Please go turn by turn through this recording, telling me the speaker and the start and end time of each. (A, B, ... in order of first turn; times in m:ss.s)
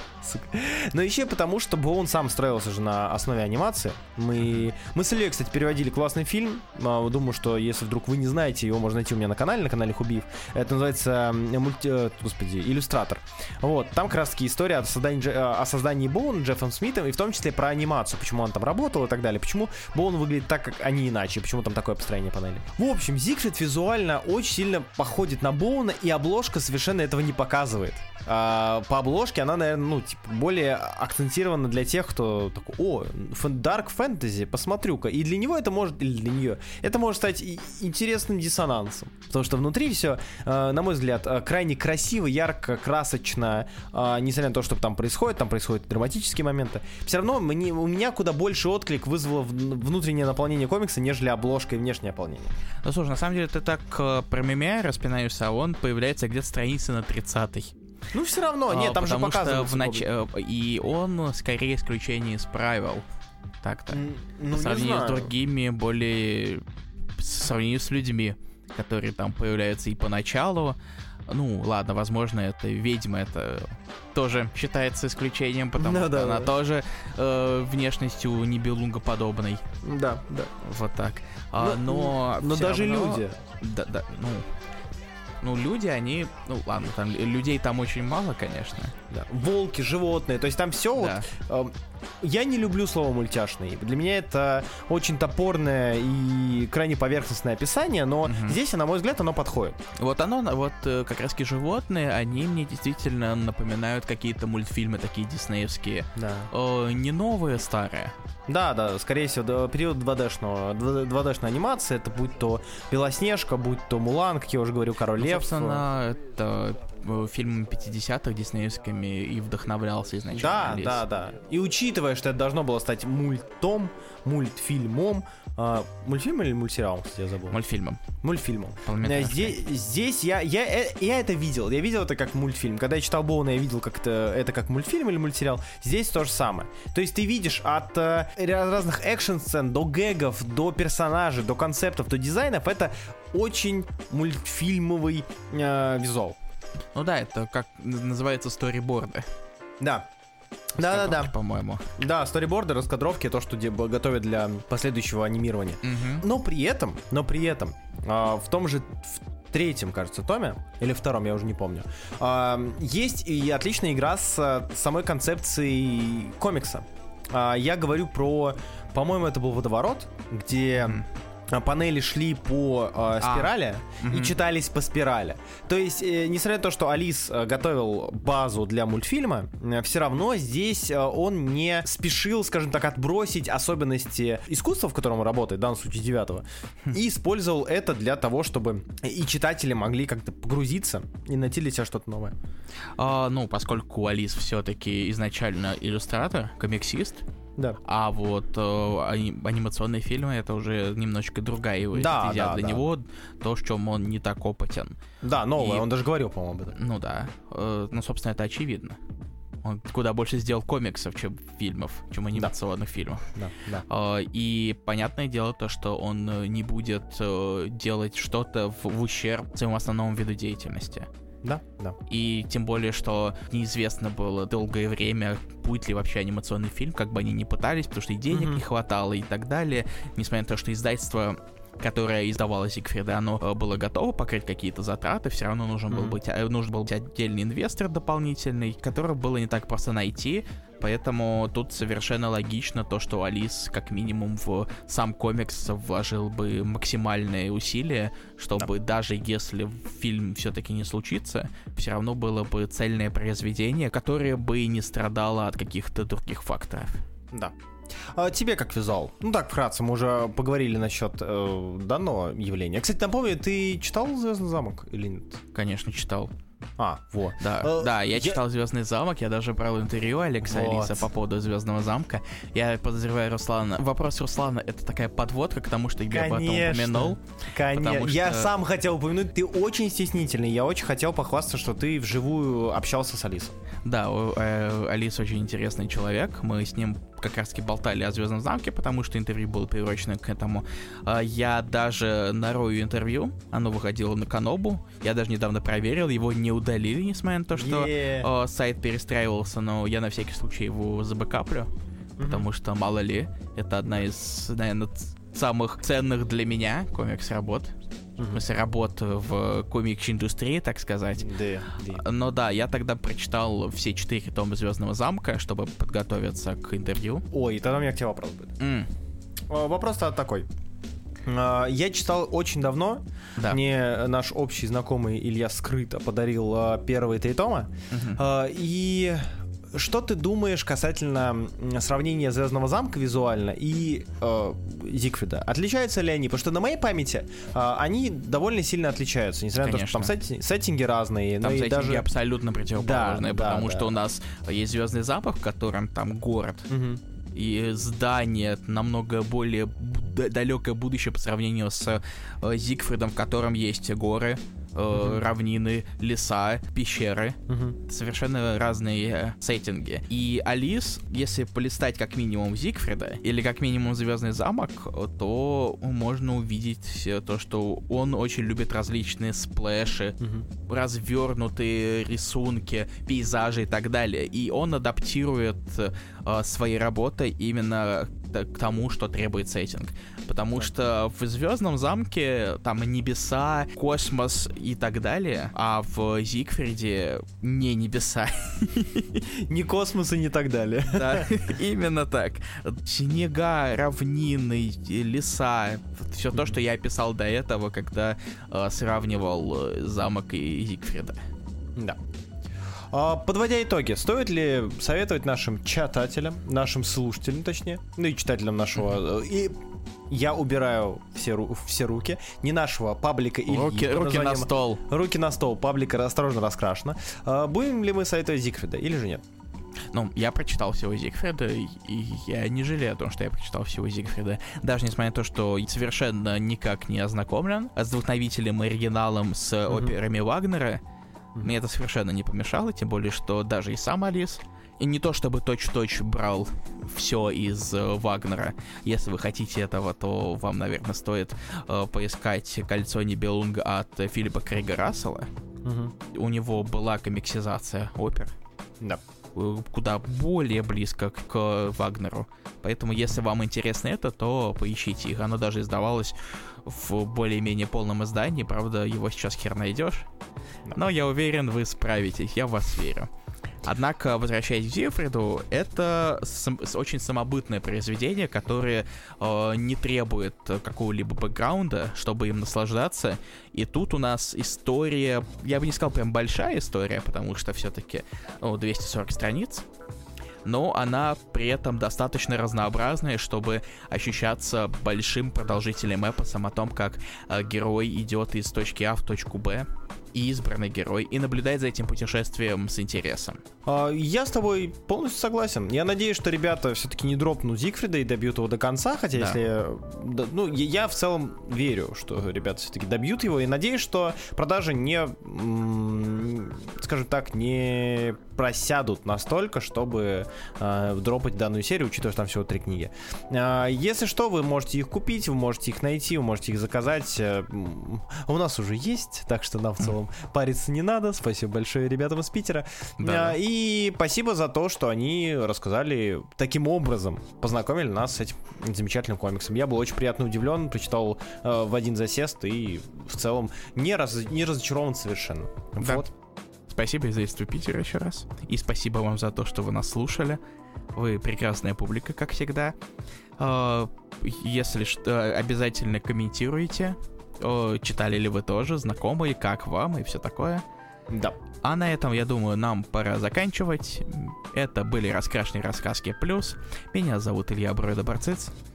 0:00.2-0:52.6 A
0:04.4-0:04.6 B
0:52.8-0:57.7 B
0:58.1-1:00.1 A
0:58.7-1:03.0 B
1:03.6-1:06.6 B
1:03.9-1:05.3 A
1:07.2-1:10.8 B
1:11.3-1:19.6 B
1:15.8-1:16.5 A
1:19.8-1:20.5 A
1:20.6-1:24.5 B
1:21.6-1:23.4 A
1:25.4-1:28.9 B
1:29.1-1:39.8 A
1:31.0-1:31.3 B
1:38.2-1:38.6 B
1:40.0-1:48.1 B
1:46.1-1:46.5 A
1:48.5-1:55.8 A
1:55.2-2:01.0 B
2:00.3-2:07.6 A
2:07.5-2:08.0 B
2:08.2-2:26.4 A
2:08.8-2:09.6 B
2:26.9-2:29.3 B
2:29.8-2:30.1 A
2:30.8-2:31.3 A
2:30.8-2:31.8 B
2:32.0-3:12.3 A
2:35.8-2:36.2 B
2:53.2-2:54.4 B
3:13.0-3:17.2 B
3:17.8-3:25.0 B
3:21.9-3:22.8 A
3:25.2-3:26.8 A
3:25.6-3:25.9 B
3:26.7-3:29.0 B
3:29.6-3:33.3 B
3:33.3-3:33.8 A
3:33.9-3:41.1 B
3:41.4-3:42.0 A
3:42.1-4:17.0 B
3:48.3-3:48.6 A
3:55.9-3:56.2 A
4:17.3-4:25.4 A
4:25.5-4:26.3 B
4:26.8-4:28.4 A
4:27.4-4:38.5 B
4:30.4-4:31.1 A
4:36.1-4:43.5 A
4:43.8-5:01.7 B
4:57.5-4:58.3 A
5:02.2-5:02.5 A
5:02.2-5:07.7 B
5:08.3-5:11.3 B
5:11.2-5:12.0 A
5:11.8-5:17.2 B
5:17.3-5:18.6 A
5:18.6-5:18.9 B
5:19.5-5:20.5 A
5:21.2-5:42.1 A
5:27.9-5:28.2 B
5:39.6-5:40.1 B
5:41.4-5:46.7 B
5:42.7-5:43.9 A
5:46.7-5:47.0 A
5:47.3-6:29.2 B
5:54.9-5:55.2 A
5:57.5-5:57.8 A
6:10.2-6:10.4 A
6:29.2-6:31.3 A
6:30.9-6:41.2 B
6:42.9-6:59.2 A
6:53.5-6:54.8 B
6:59.9-7:10.8 B
7:09.7-7:10.0 A
7:11.4-7:25.3 B
7:25.6-7:25.9 A
7:26.1-7:28.3 B
7:29.3-7:40.1 B
7:40.7-7:43.1 B
7:43.6-7:59.6 B
8:00.4-8:13.4 B
8:13.6-8:56.1 A
8:43.0-8:43.4 B
8:55.8-8:56.1 B
8:56.7-9:00.4 B
9:00.9-9:02.8 B
9:03.4-9:10.6 B
9:11.1-9:11.4 A
9:11.6-9:18.5 B